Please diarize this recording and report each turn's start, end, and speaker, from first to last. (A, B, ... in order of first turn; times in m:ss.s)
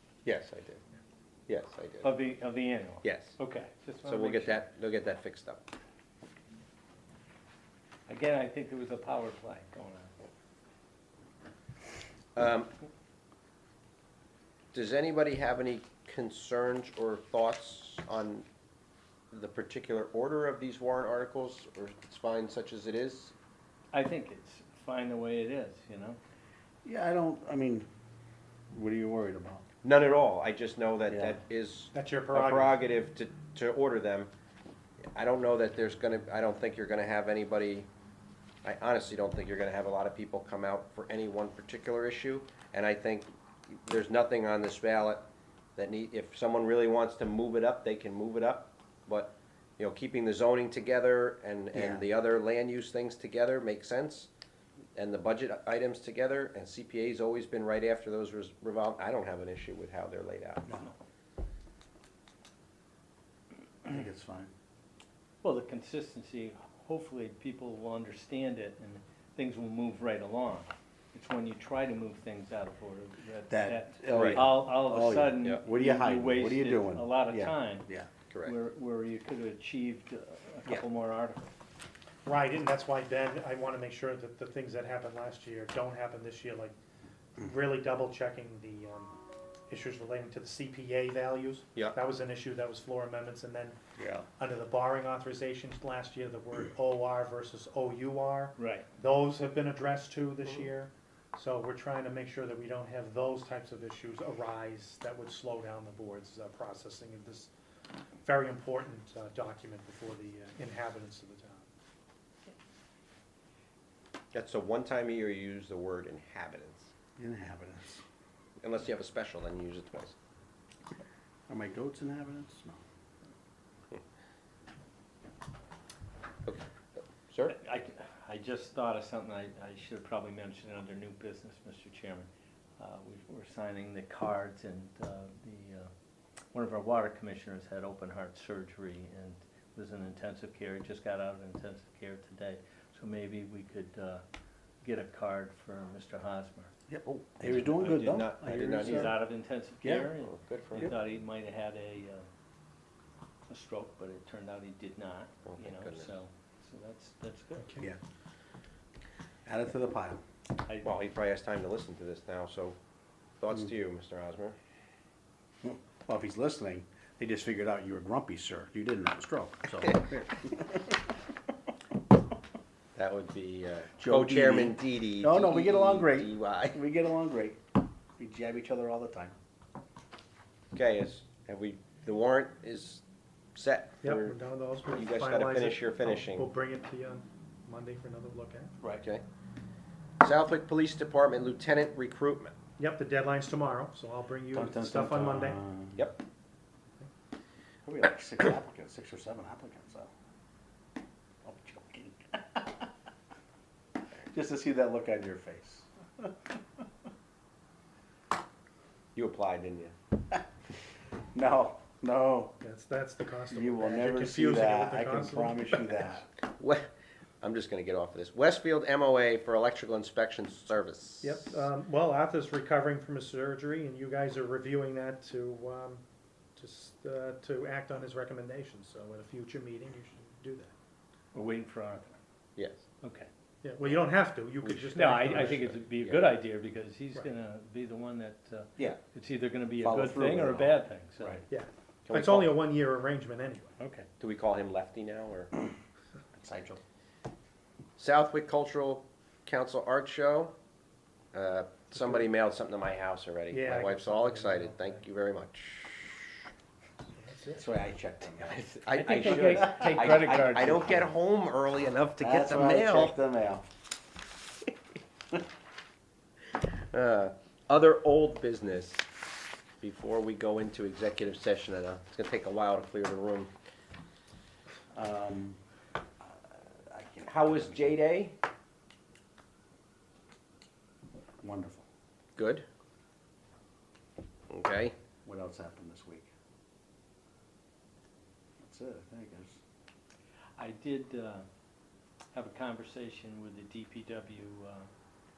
0:00.2-0:00.8 A
0:01.5-0:02.1 A
0:02.0-0:04.6 B
0:03.0-0:03.4 A
0:04.0-0:05.6 A
0:08.1-0:10.1 B
0:12.4-0:12.7 A
0:14.7-0:18.4 A
0:19.3-0:23.3 A
0:23.9-0:26.2 B
0:26.8-0:27.9 C
0:28.7-0:29.6 C
0:29.8-0:34.3 A
0:31.1-0:31.4 C
0:31.9-0:32.8 D
0:35.1-0:37.9 A
0:38.6-0:45.2 A
0:45.8-0:54.3 A
0:51.7-0:52.0 C
0:54.9-1:00.7 A
1:00.7-1:00.9 C
1:03.8-1:04.5 C
1:05.4-1:17.9 B
1:13.5-1:18.1 C
1:14.1-1:14.4 A
1:18.4-1:21.5 B
1:22.2-1:26.7 D
1:27.4-1:29.1 D
1:29.7-1:33.8 D
1:34.0-1:34.3 C
1:34.4-1:47.5 D
1:38.6-1:38.9 B
1:48.2-1:51.7 D
1:54.3-1:56.9 A
1:57.2-1:58.0 C
1:58.6-2:00.2 A
2:01.5-2:02.8 C
2:07.3-2:07.6 A
2:07.5-2:15.9 B
2:16.5-2:24.2 B
2:24.8-2:26.7 B
2:26.9-2:29.2 C
2:27.4-2:32.2 B
2:27.8-2:29.2 A
2:29.8-2:30.1 C
2:30.2-2:30.9 A
2:33.5-2:37.7 B
2:35.4-2:36.1 A
2:37.6-2:37.9 D
2:39.4-2:40.2 C
2:40.6-2:40.9 B
2:40.8-2:42.8 A
2:43.4-2:44.6 A
2:45.6-2:51.0 C
2:52.9-2:56.8 A
2:54.0-2:57.6 C
2:58.2-2:59.4 C
3:00.7-3:03.0 A
3:03.5-3:04.4 A
3:04.0-3:08.8 D
3:04.9-3:06.5 A
3:08.9-3:09.2 A
3:10.2-3:12.5 A
3:12.8-3:15.6 D
3:14.5-3:16.0 C
3:17.8-3:20.1 C
3:21.4-3:22.9 C
3:24.3-3:26.3 C
3:29.1-3:29.9 A
3:31.3-3:32.5 C
3:32.6-3:36.0 D
3:33.5-3:36.3 C
3:36.6-3:36.9 A
3:37.4-3:41.5 A
3:41.2-3:46.0 D
3:46.6-3:50.7 D
3:51.3-3:52.2 B
3:52.6-3:52.8 A
3:53.0-3:53.3 B
3:53.6-3:55.8 D
3:54.6-3:55.0 A
3:54.9-4:01.4 B
3:56.0-3:56.3 A
3:59.8-4:01.4 C
4:01.5-4:03.7 D
4:02.0-4:02.6 A
4:03.8-4:04.1 B
4:04.2-4:05.5 A
4:06.4-4:06.8 C
4:08.0-4:10.5 A
4:11.3-4:16.3 A
4:11.9-4:12.3 D
4:13.5-4:15.0 D
4:17.1-4:17.7 D
4:17.6-4:18.6 C
4:18.5-4:23.2 A
4:18.9-4:20.8 B
4:19.2-4:21.1 C
4:22.2-4:23.7 C
4:26.6-4:29.1 A
4:29.8-4:33.5 A
4:34.9-4:35.6 C
4:36.2-4:38.0 C
4:37.3-4:38.4 A
4:41.4-4:41.8 C
4:42.4-4:42.6 A
4:44.5-4:44.9 A
4:45.2-4:46.3 C
4:48.6-4:49.6 C
4:50.6-4:51.4 B
4:52.3-4:54.9 B